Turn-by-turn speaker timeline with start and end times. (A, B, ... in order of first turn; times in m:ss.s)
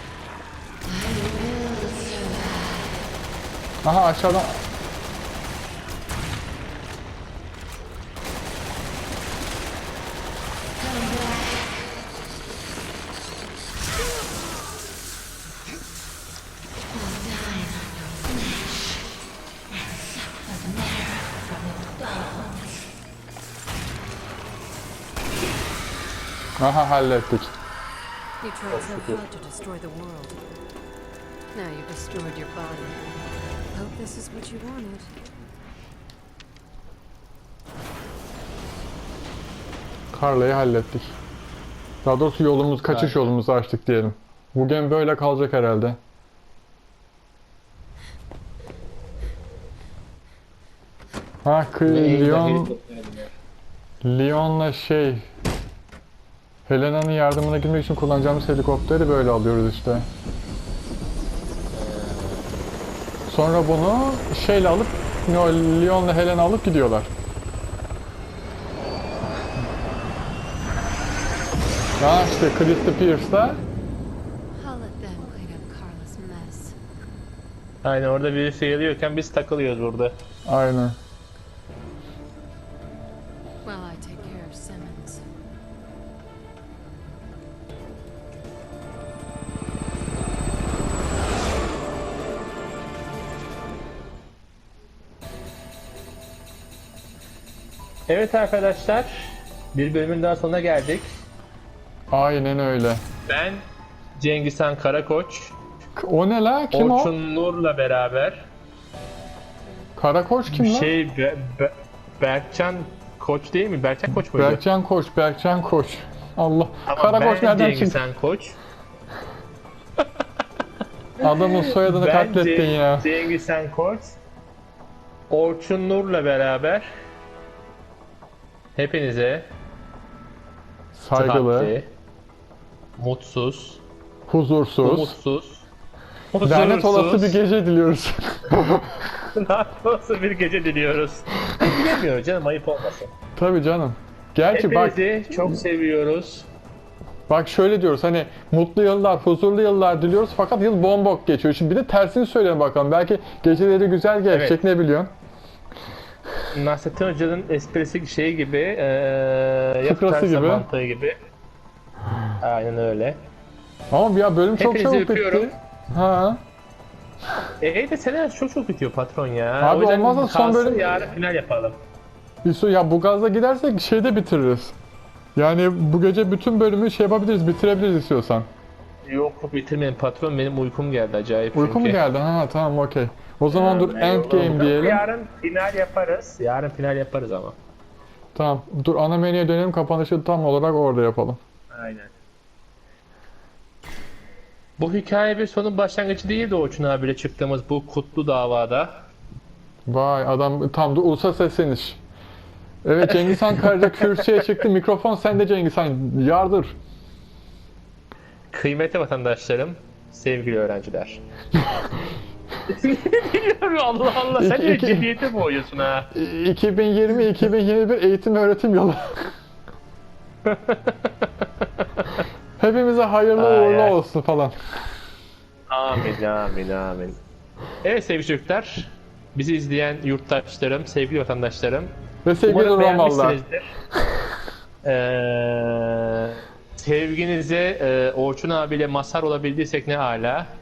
0:00.8-0:02.9 A
0:03.8-0:04.6 B
0:10.8-0:11.8 A
0:16.9-0:18.6 A
0:19.9-0:22.6 A
0:26.6-0:27.5 B
0:28.4-0:30.4 A
0:28.7-0:29.2 C
0:31.5-0:33.0 A
0:33.7-0:35.1 A
0:40.1-0:41.1 B
0:42.0-0:46.0 B
0:42.9-0:43.3 C
0:51.4-0:52.7 B
0:51.8-0:53.3 C
0:54.0-0:55.2 B
0:56.7-1:00.1 B
1:01.7-1:02.5 C
1:03.3-1:07.1 B
1:12.0-1:13.6 B
1:14.6-1:16.8 A
1:17.8-1:20.1 C
1:20.4-1:21.0 B
1:23.6-1:25.2 A
1:38.1-1:41.1 C
1:42.1-1:43.0 B
1:43.3-1:43.6 C
1:44.2-1:45.5 C
1:46.0-1:47.1 B
1:46.7-1:48.4 C
1:50.0-1:50.9 B
1:50.5-1:54.6 C
1:54.3-1:58.0 B
1:56.9-1:58.6 C
2:01.2-2:03.1 B
2:01.2-2:04.2 C
2:05.3-2:06.9 C
2:08.8-2:09.5 C
2:10.9-2:11.7 B
2:11.1-2:11.9 C
2:13.0-2:13.8 C
2:14.3-2:15.2 B
2:14.8-2:15.6 C
2:16.3-2:17.4 C
2:16.4-2:19.3 B
2:19.3-2:23.1 C
2:23.4-2:25.5 B
2:24.5-2:26.5 C
2:27.3-2:35.1 B
2:34.3-2:34.6 C
2:36.5-2:41.2 C
2:39.8-2:40.6 B
2:42.4-2:43.2 C
2:43.9-2:46.4 B
2:44.6-2:45.5 C
2:47.6-2:51.8 C
2:49.6-2:51.1 B
2:52.4-2:54.8 B
2:55.4-2:58.5 B
2:59.0-3:02.0 C
3:01.5-3:05.0 B
3:03.5-3:07.6 C
3:08.3-3:11.4 B
3:11.7-3:12.1 C
3:14.8-3:19.0 C
3:19.9-3:22.0 B
3:22.8-3:26.8 B
3:23.1-3:24.3 C
3:28.5-3:31.2 C
3:32.7-3:36.1 C
3:34.3-3:35.1 B
3:36.1-3:39.3 B
3:40.4-3:42.2 C
3:42.6-3:44.6 B
3:43.4-3:44.0 C
3:45.7-3:47.2 C
3:47.8-3:51.9 C
3:52.2-3:53.4 B
3:52.4-3:53.7 C
3:54.8-4:00.5 C